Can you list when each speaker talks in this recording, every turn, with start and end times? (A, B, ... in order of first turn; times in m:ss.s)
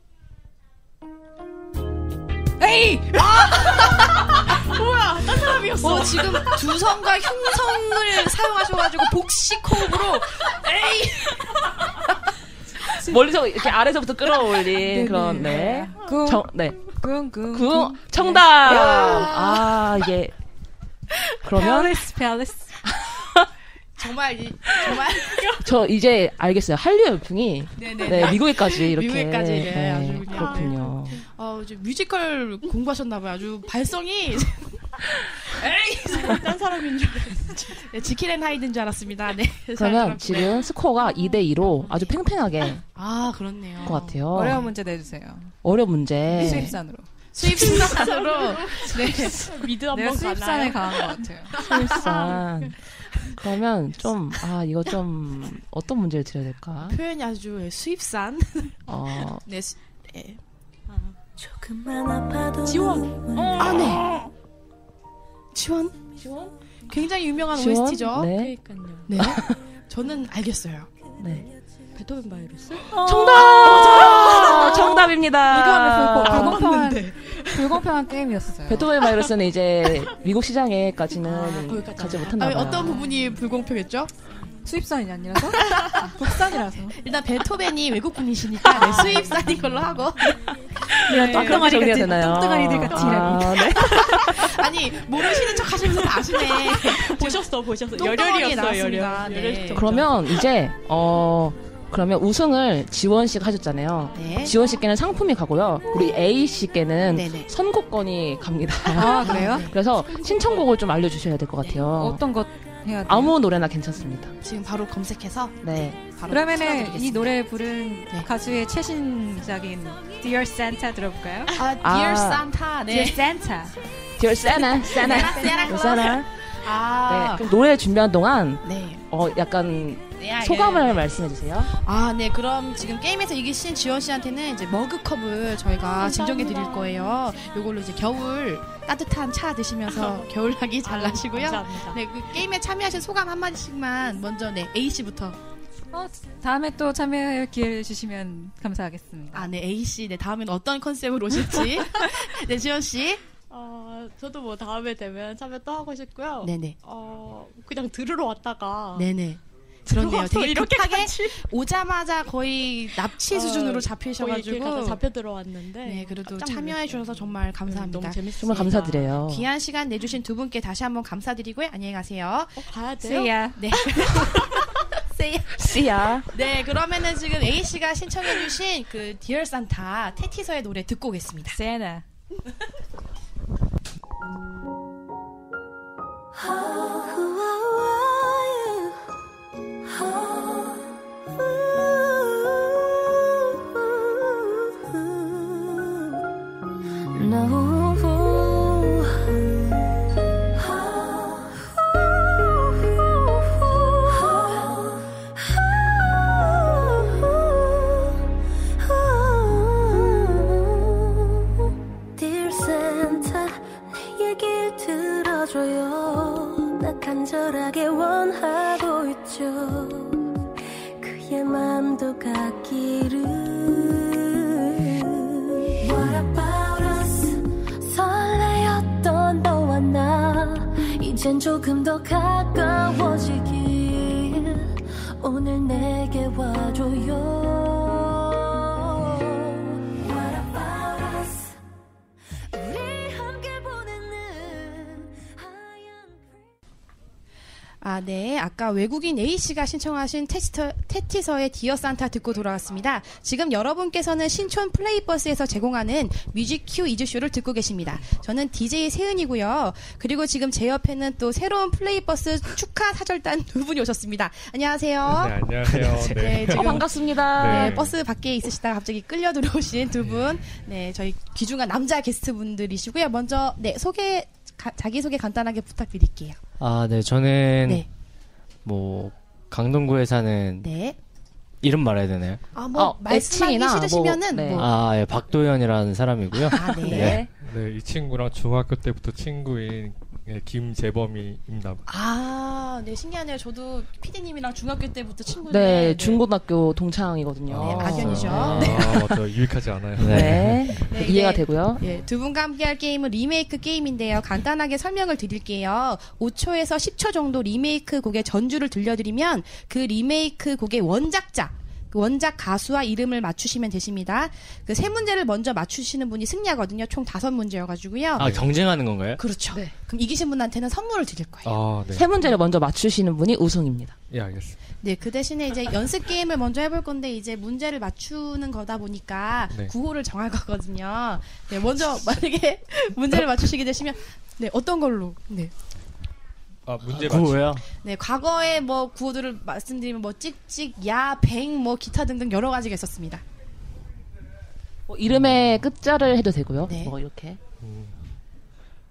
0:02.6-0:03.8 A
0:03.2-0:04.1 B
0:03.6-0:06.6 C
0:05.8-0:11.4 B
0:13.0-0:16.9 D
0:14.8-0:19.2 A
0:17.5-0:20.3 D
0:18.6-0:19.7 B
0:21.4-0:22.0 D
0:21.5-0:22.8 A
0:23.1-0:23.4 D
0:24.0-0:25.5 B
0:25.6-0:31.2 D
0:27.8-0:34.7 B
0:30.3-0:31.2 C
0:35.4-0:36.4 B
0:36.1-0:37.9 C
0:37.8-0:40.7 B
0:39.8-0:42.8 D
0:43.0-0:44.2 B
0:43.8-0:44.7 D
0:44.3-0:45.5 A
0:45.6-0:46.8 D
0:46.3-0:47.1 A
0:46.3-0:46.8 B
0:47.3-0:49.5 B
0:47.6-0:52.8 C
0:49.9-0:51.5 A
0:51.6-0:52.8 D
0:53.3-0:57.0 D
0:56.8-0:58.8 B
0:58.9-0:59.4 D
0:59.4-1:00.4 B
1:00.9-1:01.2 C
1:01.4-1:03.8 E
1:02.6-1:03.4 C
1:03.6-1:04.0 B
1:05.5-1:06.0 B
1:06.2-1:06.5 D
1:06.9-1:08.3 B
1:07.5-1:08.6 D
1:08.2-1:09.1 C
1:09.1-1:10.9 B
1:09.2-1:09.6 D
1:11.2-1:11.5 D
1:12.0-1:15.1 C
1:13.0-1:16.7 D
1:13.6-1:14.7 B
1:15.9-1:18.9 A
1:16.3-1:17.8 C
1:16.3-1:16.7 B
1:18.7-1:23.0 D
1:21.3-1:22.9 C
1:22.3-1:24.1 B
1:24.6-1:27.0 A
1:25.8-1:30.4 B
1:28.8-1:29.5 C
1:31.1-1:33.8 A
1:31.1-1:34.5 D
1:33.8-1:37.4 B
1:35.3-1:40.1 C
1:38.0-1:39.9 B
1:39.7-1:52.2 D
1:44.2-1:44.6 B
1:47.1-1:47.5 B
1:49.0-1:49.7 A
1:49.2-1:49.7 B
1:51.9-1:53.4 A
1:53.1-1:54.3 D
1:54.4-1:57.3 B
1:55.6-1:56.0 D
1:56.3-2:01.6 A
2:01.5-2:03.2 B
2:01.8-2:02.5 D
2:02.9-2:03.8 A
2:04.2-2:06.3 D
2:04.8-2:07.4 B
2:05.2-2:05.6 A
2:07.1-2:11.7 D
2:08.6-2:09.0 B
2:10.2-2:11.1 B
2:11.8-2:25.4 B
2:16.0-2:17.2 C
2:19.9-2:20.2 C
2:20.8-2:22.0 C
2:25.9-2:29.5 A
2:29.3-2:33.2 B
2:33.5-2:39.1 C
2:36.4-2:36.8 B
2:39.0-2:45.0 B
2:39.9-2:41.5 C
2:43.2-2:49.2 C
2:45.8-2:48.2 B
2:48.4-2:49.5 D
2:49.3-2:52.7 B
2:52.7-2:53.3 C
2:53.0-2:53.6 A
2:53.6-2:55.6 B
2:54.1-2:54.6 C
2:55.6-2:56.3 D
2:56.3-3:01.6 B
3:01.5-3:02.0 A
3:06.4-3:09.0 E
3:09.9-3:16.2 E
3:17.1-3:19.9 E
3:20.5-3:28.2 E
3:28.8-3:40.3 E
3:41.0-4:01.6 E
4:02.5-4:06.5 E
4:07.8-4:36.4 B
4:25.1-4:26.8 F
4:26.5-4:27.8 D
4:27.3-4:28.0 F
4:36.6-4:37.9 G
4:38.6-4:40.7 G
4:40.6-4:41.0 B
4:41.6-4:42.4 G
4:42.5-4:44.7 B
4:42.7-4:44.7 D
4:44.6-4:47.2 G
4:46.5-4:47.2 B
4:46.6-4:47.3 D
4:47.3-4:51.8 F
4:51.9-4:56.2 B
4:55.5-4:59.2 D
4:57.5-5:00.7 F
4:57.6-4:59.0 B
5:00.0-5:00.6 G
5:00.1-5:01.8 D
5:00.8-5:18.3 B
5:18.2-5:18.6 F
5:18.2-5:19.2 G
5:19.2-5:21.6 B
5:21.4-5:22.1 F
5:21.9-5:24.0 D
5:24.1-5:24.6 F
5:24.8-5:35.5 B
5:36.7-5:37.6 F
5:36.9-5:37.6 G
5:37.8-5:43.2 B
5:44.9-5:47.4 D
5:46.7-5:46.9 B
5:47.6-5:47.9 F